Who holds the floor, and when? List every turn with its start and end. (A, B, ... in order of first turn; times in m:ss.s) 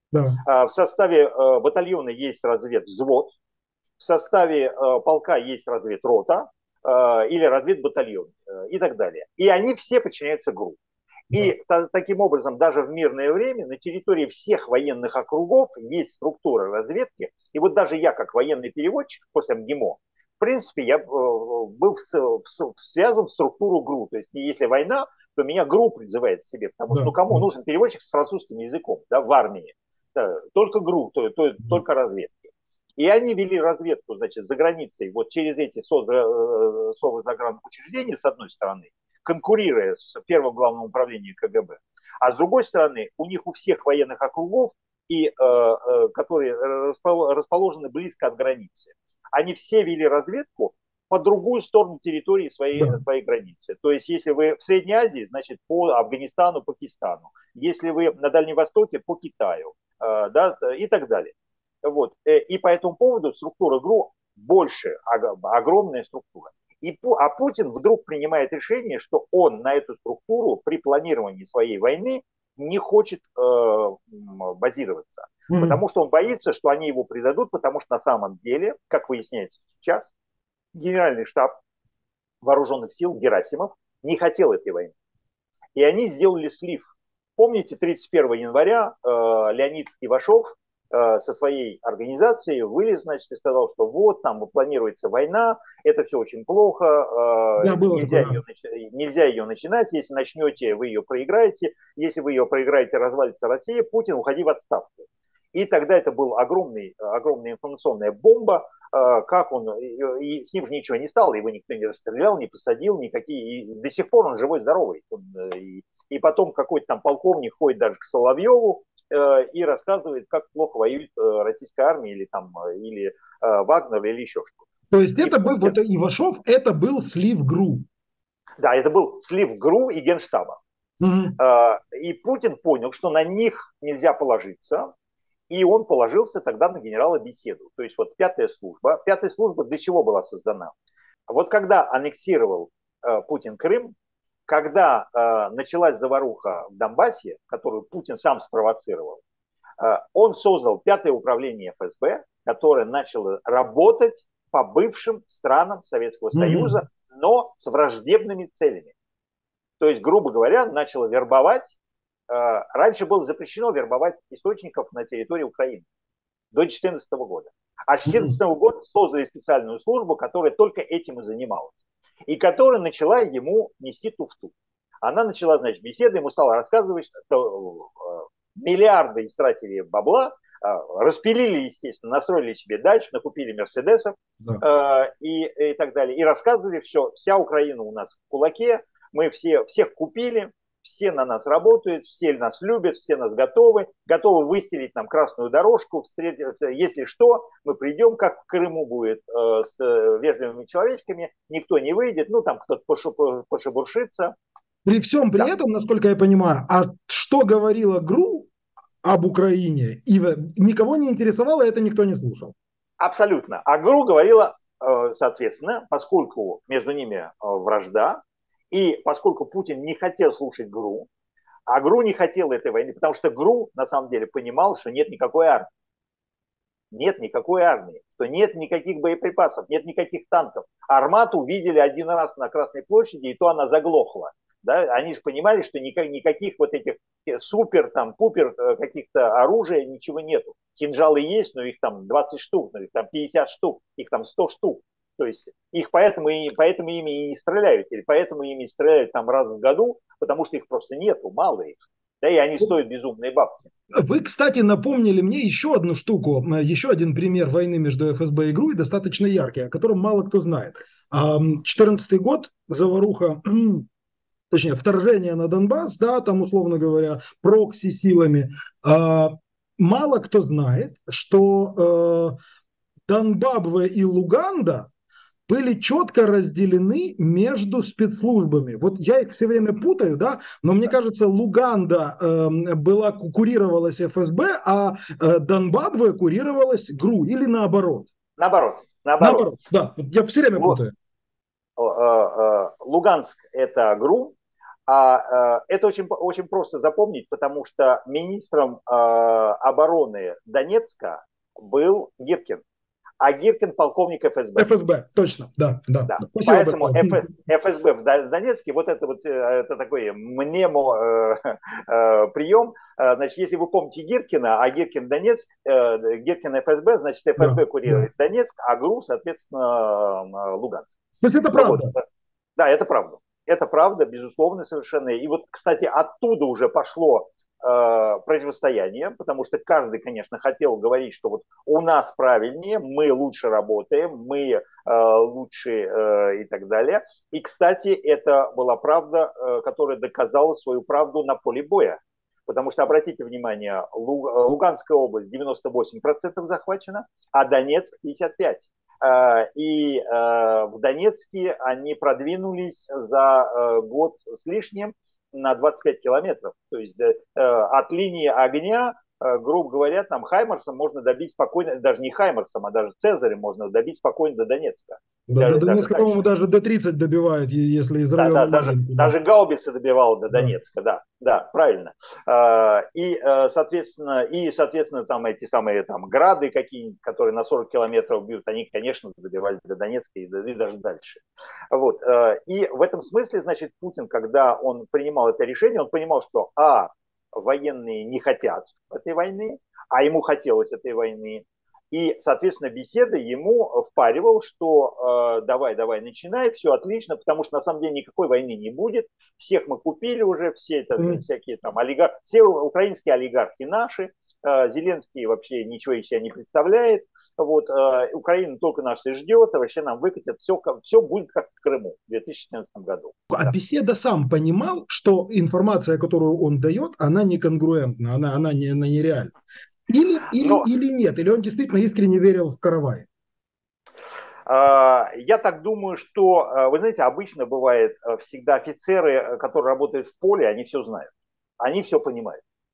0:00.1-0:00.4 A
0:00.4-0:03.4 B
0:04.0-0:10.8 B
0:11.3-1:20.1 B
0:26.9-0:27.4 A
1:15.5-1:15.8 A
1:20.7-1:21.5 B
1:22.4-1:24.9 B
1:25.8-1:26.8 B
1:27.4-2:04.6 B
1:37.6-1:38.4 A
2:04.9-2:07.9 A
2:05.2-2:05.8 B
2:08.6-2:10.6 B
2:11.0-2:11.4 A
2:11.4-2:14.9 B
2:15.5-2:20.7 B
2:21.3-2:23.9 B
2:24.5-2:29.2 B
2:29.8-2:38.9 B
2:36.3-2:36.8 A
2:39.8-2:41.7 B
2:42.3-2:45.9 B
2:46.5-2:51.8 B
2:48.1-2:48.4 A
2:52.3-3:24.4 B
3:24.8-3:28.5 A
3:29.0-3:32.5 A
3:33.0-3:41.1 B
3:41.7-3:45.7 B
3:46.9-4:13.6 B
4:13.9-4:23.9 A
4:24.5-4:32.4 A
4:33.1-4:34.9 A
4:35.5-4:48.1 A
4:48.4-4:49.5 B
4:49.2-4:50.9 A
4:51.8-4:54.4 B
4:54.9-5:02.6 B
5:03.2-5:04.7 B
5:04.6-5:07.3 A
5:06.1-5:21.0 B
5:17.4-5:18.0 A
5:21.2-5:21.9 A
5:21.5-5:22.0 B
5:22.6-6:06.2 B
6:05.3-6:09.1 A
6:08.2-6:53.5 B
6:53.3-6:59.3 A
6:59.9-7:03.1 A
7:00.4-7:00.7 B
7:04.5-7:12.4 B